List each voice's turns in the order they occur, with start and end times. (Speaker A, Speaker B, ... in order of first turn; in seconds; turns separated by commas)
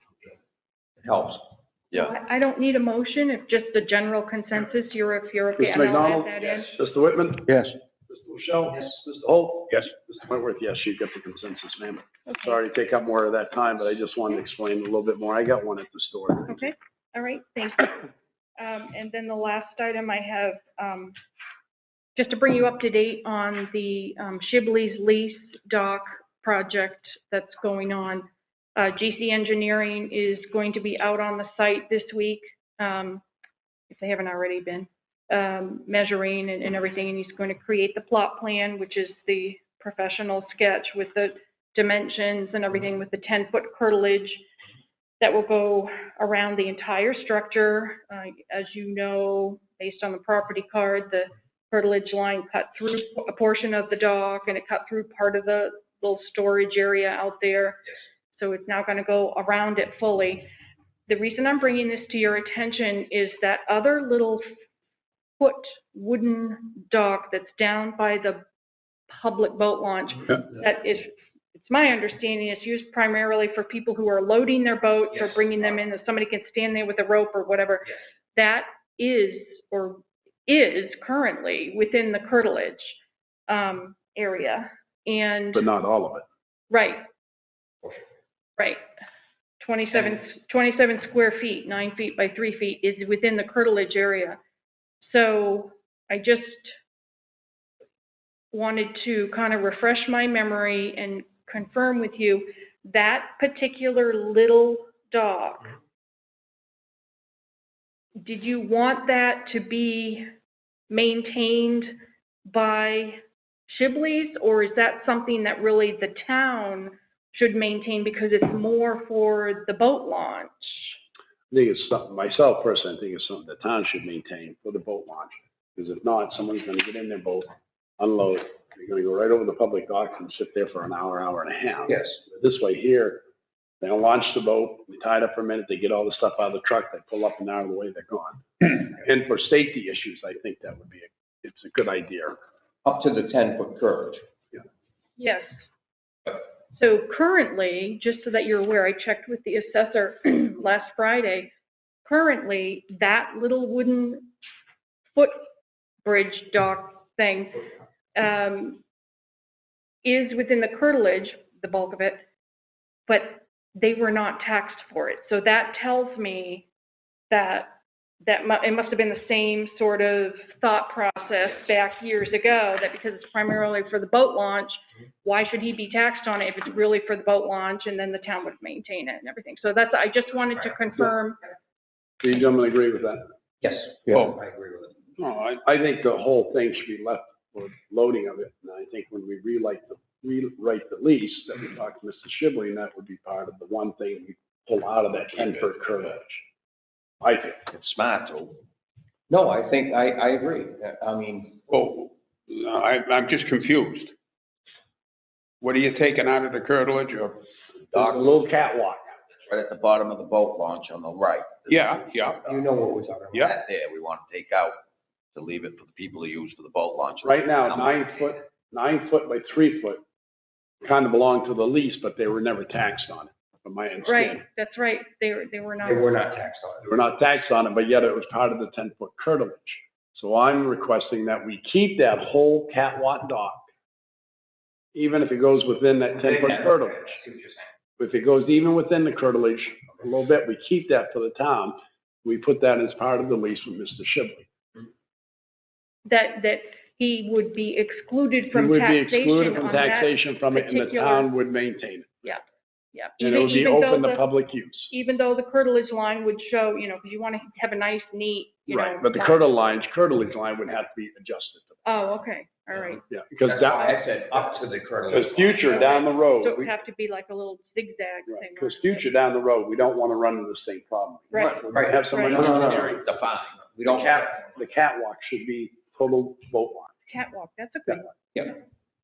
Speaker A: 1.0-1.4, Speaker B: 1.9-6.7, Speaker C: 5.6-16.7, Speaker B: 12.3-12.6, Speaker B: 16.5-21.2, Speaker B: 22.1-33.2, Speaker B: 33.9-44.4, Speaker B: 45.2-57.8, Speaker B: 58.3-60.5, Speaker B: 61.1-64.4, Speaker B: 65.4-68.4, Speaker B: 69.1-83.0, Speaker B: 83.5-85.7, Speaker C: 85.5-86.2, Speaker B: 86.7-87.0, Speaker B: 89.6-94.4, Speaker B: 95.0-96.7, Speaker B: 98.5-105.8, Speaker B: 108.2-110.3, Speaker B: 110.9-121.0, Speaker C: 121.5-133.2, Speaker C: 133.8-142.4, Speaker A: 142.8-144.2, Speaker B: 145.2-145.6, Speaker B: 146.7-151.5, Speaker B: 152.0-154.3, Speaker B: 155.1-155.5, Speaker B: 156.0-157.6, Speaker B: 158.1-158.8, Speaker B: 160.0-162.2, Speaker B: 163.1-166.7, Speaker B: 167.3-181.4, Speaker C: 182.2-183.3, Speaker A: 183.6-184.9, Speaker D: 184.1-184.3, Speaker C: 185.2-196.4, Speaker C: 197.2-197.6, Speaker E: 197.7-198.5, Speaker A: 199.3-201.6, Speaker D: 201.7-204.1, Speaker D: 205.6-207.4, Speaker C: 207.9-209.0, Speaker E: 209.5-212.6, Speaker D: 211.7-212.4, Speaker A: 212.4-213.5, Speaker E: 213.3-214.8, Speaker E: 215.3-218.0, Speaker C: 217.2-220.0, Speaker C: 220.8-224.4, Speaker B: 224.0-226.2, Speaker A: 225.8-226.8, Speaker C: 226.8-233.7, Speaker C: 234.9-237.2, Speaker A: 236.2-237.5, Speaker C: 238.0-244.5, Speaker B: 246.1-251.3, Speaker C: 248.5-252.1, Speaker B: 252.9-254.3, Speaker C: 253.2-254.9, Speaker B: 254.9-259.4, Speaker C: 258.7-261.8, Speaker B: 261.8-263.0, Speaker C: 263.1-263.9, Speaker A: 263.4-265.7, Speaker B: 263.7-264.0, Speaker C: 265.1-266.7, Speaker B: 265.6-269.1, Speaker C: 268.3-273.0, Speaker B: 271.3-272.6, Speaker A: 271.6-274.5, Speaker C: 273.9-276.9, Speaker B: 277.1-278.1, Speaker A: 278.3-278.6